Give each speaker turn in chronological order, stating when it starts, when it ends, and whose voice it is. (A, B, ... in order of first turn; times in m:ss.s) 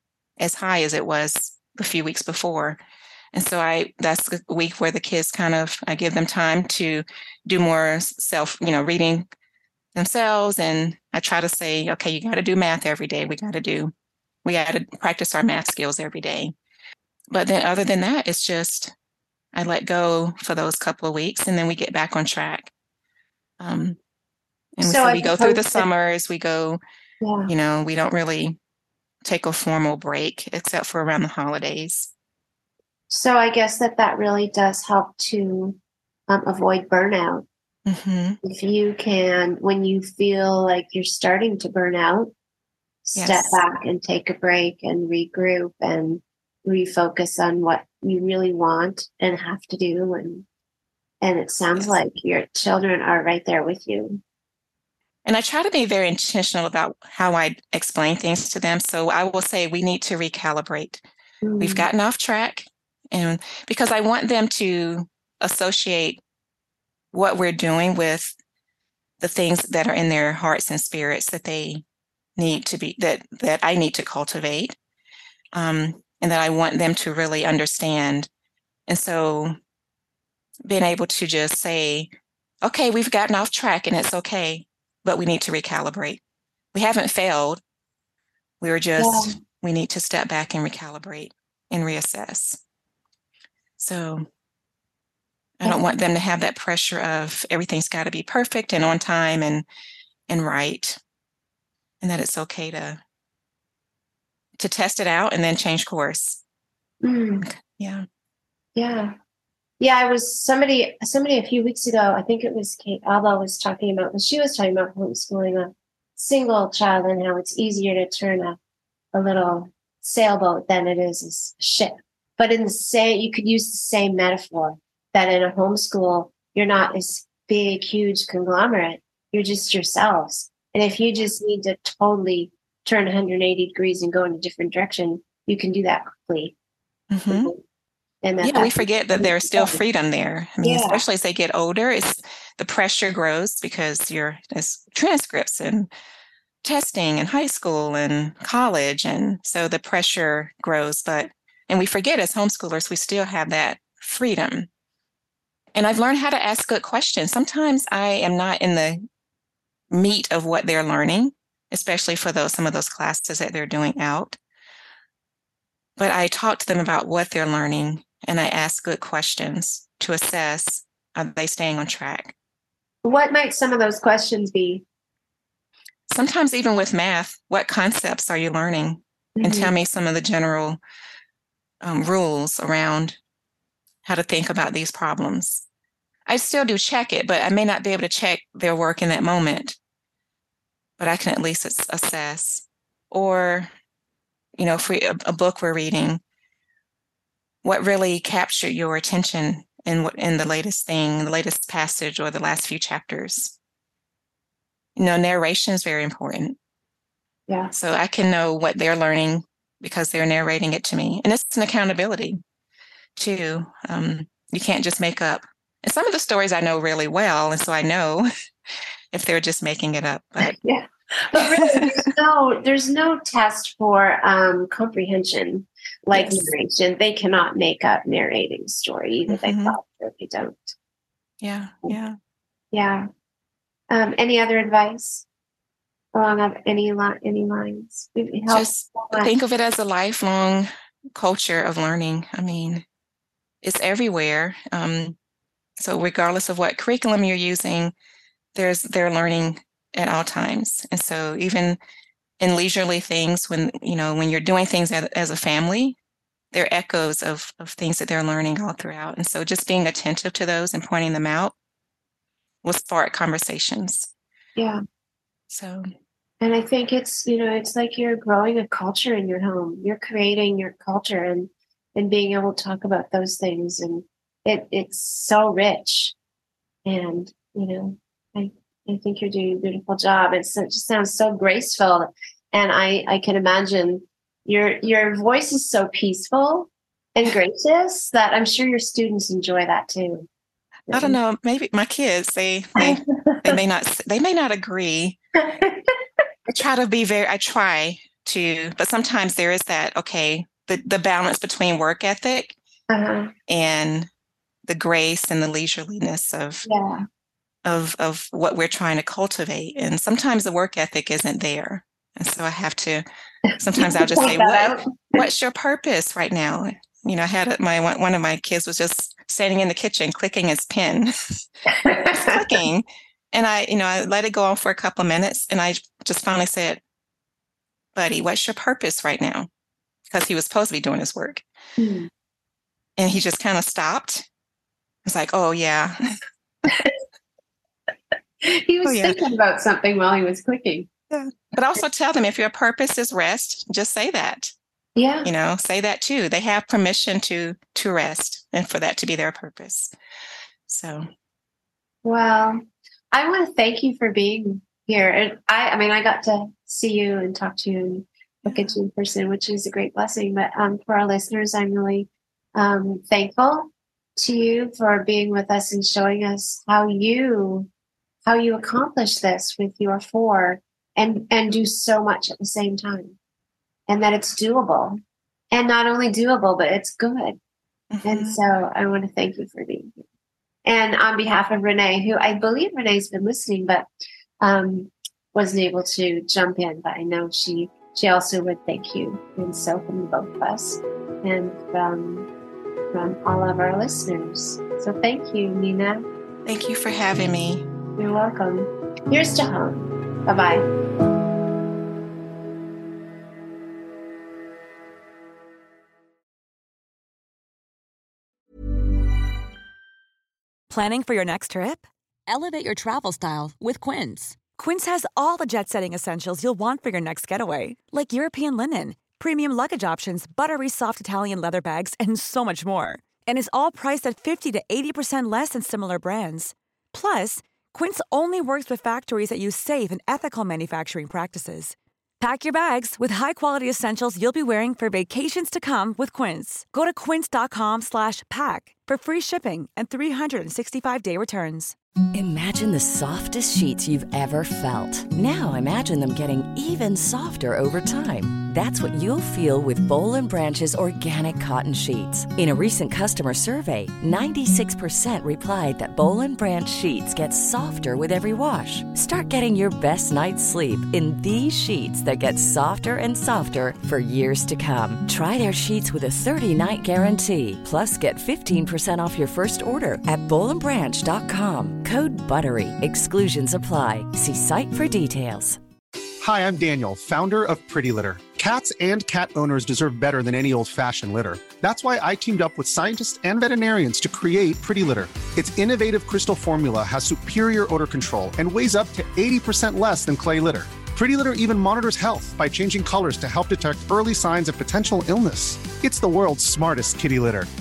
0:00.4-0:02.8 A
0:03.3-0:09.3 A
0:09.9-0:13.9 A
0:14.4-0:16.5 A
0:17.3-0:18.9 A
0:19.5-0:22.7 A
0:23.6-0:24.0 A
0:24.8-0:26.8 A
0:24.8-0:25.9 B
0:27.2-0:27.5 B
0:27.5-0:28.6 A
0:29.2-0:32.1 A
0:33.1-0:37.4 B
0:37.9-0:38.4 A
0:38.4-0:42.3 B
0:43.0-0:50.4 B
0:43.2-0:43.6 A
0:51.2-0:54.2 B
0:55.2-1:01.0 A
1:01.4-1:01.9 B
1:01.6-1:06.2 A
1:07.1-1:08.3 A
1:09.2-1:11.8 A
1:12.4-1:14.8 A
1:15.5-1:18.3 A
1:18.9-1:19.5 A
1:20.7-1:22.1 A
1:22.6-1:26.2 A
1:26.7-1:27.6 A
1:28.6-1:32.6 A
1:29.0-1:29.3 B
1:33.8-1:34.3 A
1:35.6-1:39.6 A
1:40.3-1:41.0 A
1:42.0-1:43.0 A
1:44.6-1:46.4 A
1:47.0-1:47.4 B
1:47.4-1:48.0 A
1:48.8-1:49.1 B
1:49.8-1:58.6 B
1:59.1-2:16.5 B
2:17.1-2:17.5 A
2:17.3-2:17.6 B
2:18.2-2:19.8 B
2:18.4-2:25.9 A
2:20.6-2:21.0 B
2:26.6-2:34.7 A
2:35.7-2:39.0 A
2:39.9-2:44.4 A
2:46.0-2:52.3 A
2:53.0-2:54.8 B
2:56.1-3:00.8 A
2:59.4-2:59.7 B
3:01.8-3:03.2 A
3:04.0-3:05.6 A
3:06.3-3:09.8 A
3:11.0-3:13.7 A
3:14.6-3:16.2 A
3:17.6-3:23.5 A
3:25.0-3:26.6 A
3:27.7-3:32.4 A
3:33.2-3:38.3 A
3:39.1-3:40.6 A
3:40.4-3:50.7 B
3:41.4-3:42.1 A
3:46.1-3:46.5 A
3:49.3-3:49.8 A
3:51.4-3:52.2 A
3:52.7-3:53.1 B
3:53.9-3:55.2 B
3:56.1-3:59.3 B
3:58.5-4:02.8 A
4:03.6-4:05.2 A
4:05.8-4:07.9 A
4:08.5-4:11.8 A
4:12.4-4:16.0 A
4:16.5-4:21.5 A
4:22.6-4:24.1 A
4:24.6-4:24.8 B
4:25.5-4:25.8 A
4:26.4-4:36.1 B
4:36.8-4:50.3 B
4:50.9-4:51.2 B
4:50.9-4:55.2 A
4:52.8-4:53.6 B
4:55.4-4:55.9 B
4:56.5-5:02.6 A
5:02.9-5:03.3 B
5:03.5-5:04.1 A
5:04.7-5:06.7 A
5:06.6-5:07.0 B
5:07.6-5:13.0 A
5:13.5-5:15.2 B
5:13.6-5:21.1 A
5:21.7-5:22.6 B
5:22.0-5:26.8 A
5:27.9-5:29.5 A
5:30.1-5:31.4 A
5:31.8-5:32.1 B
5:33.0-5:34.2 A
5:35.0-5:36.0 A
5:36.7-5:36.9 B
5:38.4-5:40.9 B
5:38.8-5:39.2 A
5:41.1-5:44.5 A
5:45.0-5:45.3 B
5:45.2-5:49.9 A
5:50.7-5:51.1 A
5:52.0-6:07.7 B
5:58.4-5:58.7 A
6:08.2-6:13.2 B
6:13.9-6:15.0 B
6:15.5-6:17.4 B
6:17.9-6:18.3 A
6:18.0-6:20.0 B
6:20.6-6:23.9 B
6:24.4-6:32.3 B
6:32.9-6:36.0 B
6:36.4-6:37.6 A
6:38.0-6:40.7 B
6:50.7-7:21.7 C
7:22.1-7:55.6 D
7:56.2-8:17.5 E